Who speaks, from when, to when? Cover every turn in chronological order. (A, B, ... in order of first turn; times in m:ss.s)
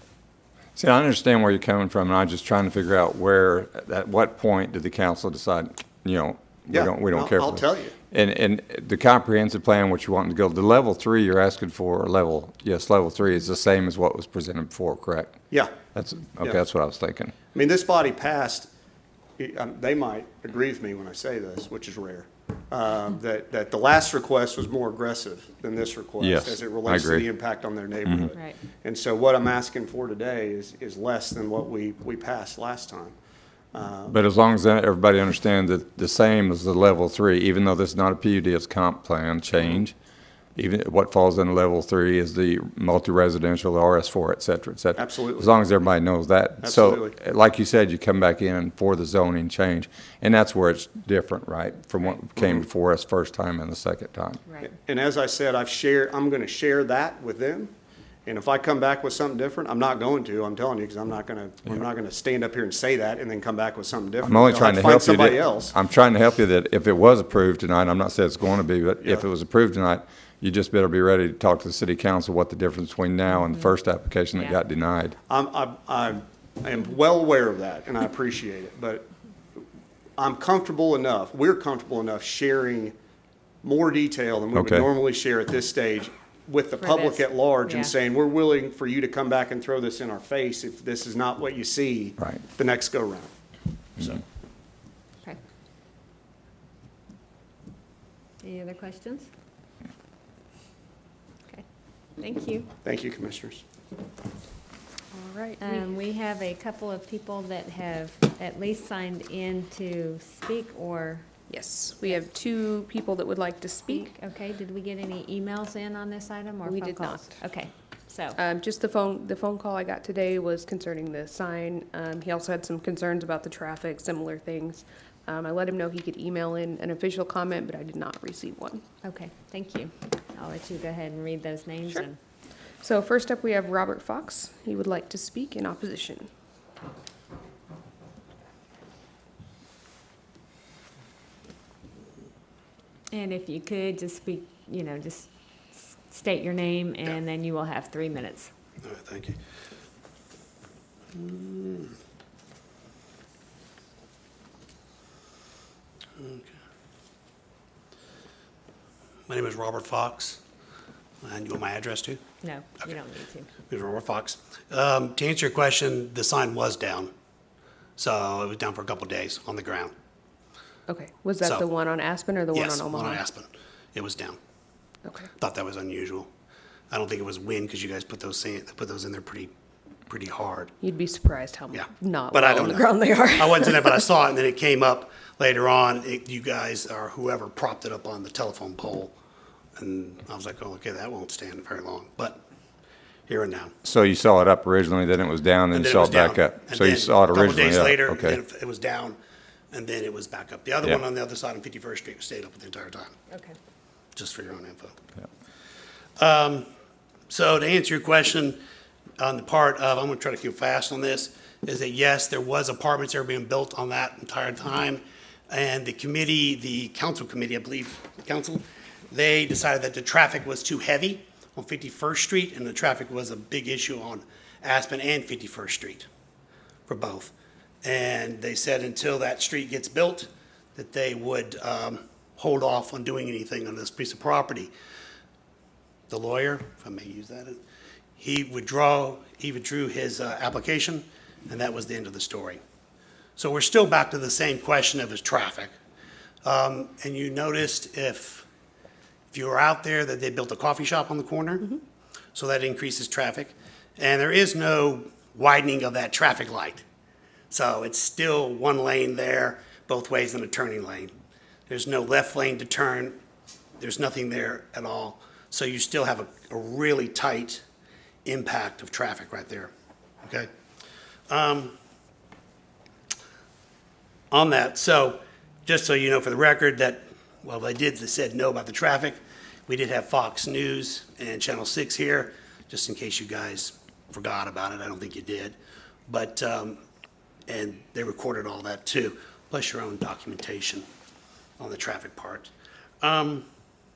0:00.8-0:15.4 A
0:06.7-0:07.9 B
0:15.9-0:17.3 A
0:17.5-0:18.7 B
0:19.4-0:33.1 B
0:26.2-0:27.3 A
0:33.7-0:34.2 B
0:34.1-0:39.9 A
0:40.6-0:54.4 A
0:45.0-0:45.6 B
0:46.6-0:47.1 B
0:52.4-0:52.6 B
0:54.6-0:57.7 B
0:58.2-1:05.7 B
1:04.2-1:15.2 A
1:15.3-1:19.1 B
1:20.2-1:22.9 B
1:23.6-1:33.3 B
1:24.5-1:24.9 A
1:26.8-1:27.9 C
1:38.4-1:39.3 C
1:42.2-1:42.7 C
1:42.8-1:43.6 B
1:45.1-1:45.9 D
1:45.6-1:51.3 C
1:51.5-1:54.1 D
1:53.9-1:58.4 C
1:56.6-1:57.4 D
1:58.4-2:08.8 D
2:09.0-2:12.2 C
2:12.8-2:16.3 D
2:23.1-2:28.5 C
2:28.8-2:29.4 E
2:31.1-2:32.0 E
2:36.2-2:36.6 E
2:39.3-2:40.4 E
2:41.2-2:42.2 E
2:42.4-2:43.5 C
2:43.7-2:47.1 E
2:48.0-2:49.9 E
2:50.9-2:53.2 D
2:52.5-2:54.4 E
2:55.0-2:55.3 D
2:55.4-2:56.3 E
2:56.9-2:59.5 E
3:00.1-3:00.7 E
3:00.8-3:04.0 D
3:01.7-3:02.8 E
3:03.4-3:09.1 E
3:09.8-3:12.4 E
3:13.3-3:13.7 E
3:13.8-3:18.4 A
3:15.7-3:19.2 E
3:19.7-3:23.1 E
3:23.3-3:23.6 C
3:24.2-3:24.9 E
3:26.2-3:26.7 E
3:27.3-3:28.6 E
3:29.2-3:46.1 E
3:46.9-3:54.7 E
3:56.1-3:57.6 E
3:58.2-4:02.6 E
4:03.4-4:05.7 E
4:06.4-4:08.4 E
4:09.3-4:11.7 E
4:12.3-4:16.8 E
4:17.5-4:21.1 E
4:21.7-4:23.2 E
4:23.8-4:27.6 E
4:28.2-4:29.7 E
4:30.2-4:30.5 E
4:31.3-4:31.8 E
4:34.3-4:45.6 E
4:46.1-4:46.8 E
4:47.5-4:50.8 E
4:51.6-4:53.4 E